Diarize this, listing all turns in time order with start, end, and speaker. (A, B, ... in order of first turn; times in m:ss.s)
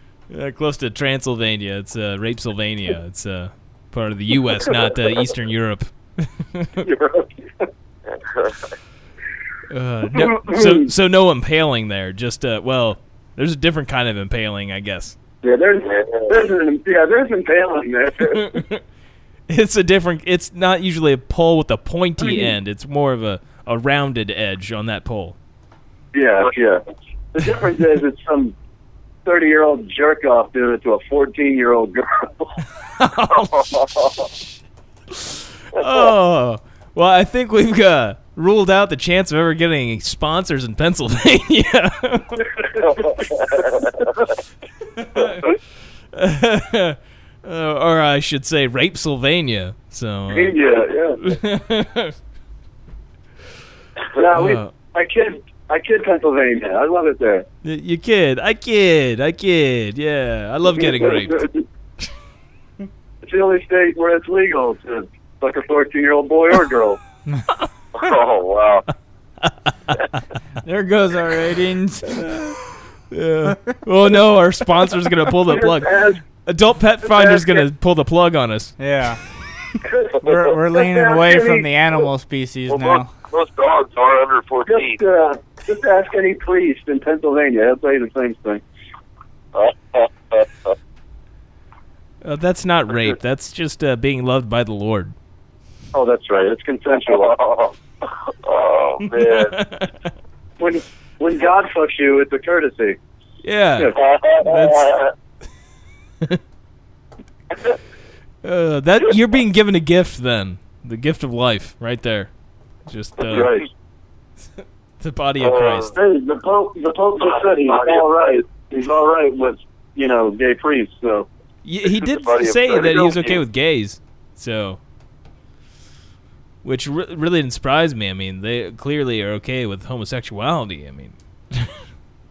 0:00.3-0:06.9 A
0:06.8-0:07.7 B
0:08.3-0:08.6 C
0:09.7-0:15.2 A
0:10.1-0:10.9 B
0:15.4-0:18.6 B
0:18.2-0:18.8 A
0:19.5-0:25.4 A
0:22.2-0:22.5 B
0:26.1-0:26.8 B
0:27.3-0:28.6 B
0:29.2-0:32.6 B
0:33.0-0:34.4 A
0:35.1-0:42.5 A
0:43.0-0:43.8 C
0:45.0-0:45.6 A
0:46.1-0:50.6 A
0:50.3-0:51.2 B
0:51.2-0:52.1 A
0:54.1-0:57.4 B
0:54.3-0:54.7 A
0:57.6-1:01.5 A
1:00.7-1:01.6 B
1:03.2-1:07.0 B
1:08.0-1:08.9 C
1:09.4-1:10.0 A
1:10.6-1:12.5 D
1:12.2-1:12.6 A
1:13.1-1:18.7 A
1:13.4-1:13.8 D
1:15.4-1:16.2 B
1:17.0-1:17.6 B
1:18.8-1:19.2 D
1:19.8-1:21.7 B
1:20.2-1:23.1 D
1:22.7-1:25.0 C
1:24.7-1:28.6 B
1:29.5-1:30.5 C
1:32.2-1:35.1 A
1:35.9-1:37.3 B
1:37.1-1:37.7 C
1:38.4-1:39.6 C
1:39.1-1:39.9 A
1:40.6-1:43.0 B
1:43.4-1:45.0 A
1:44.0-1:45.1 C
1:48.4-1:52.3 A
1:52.9-1:53.5 A
1:53.3-1:53.7 B
1:53.3-1:53.6 C
1:55.0-1:55.9 A
1:55.4-1:55.9 C
1:55.9-2:01.3 B
1:57.7-1:58.0 C
2:01.6-2:04.8 A
2:02.0-2:03.4 C
2:06.6-2:11.7 A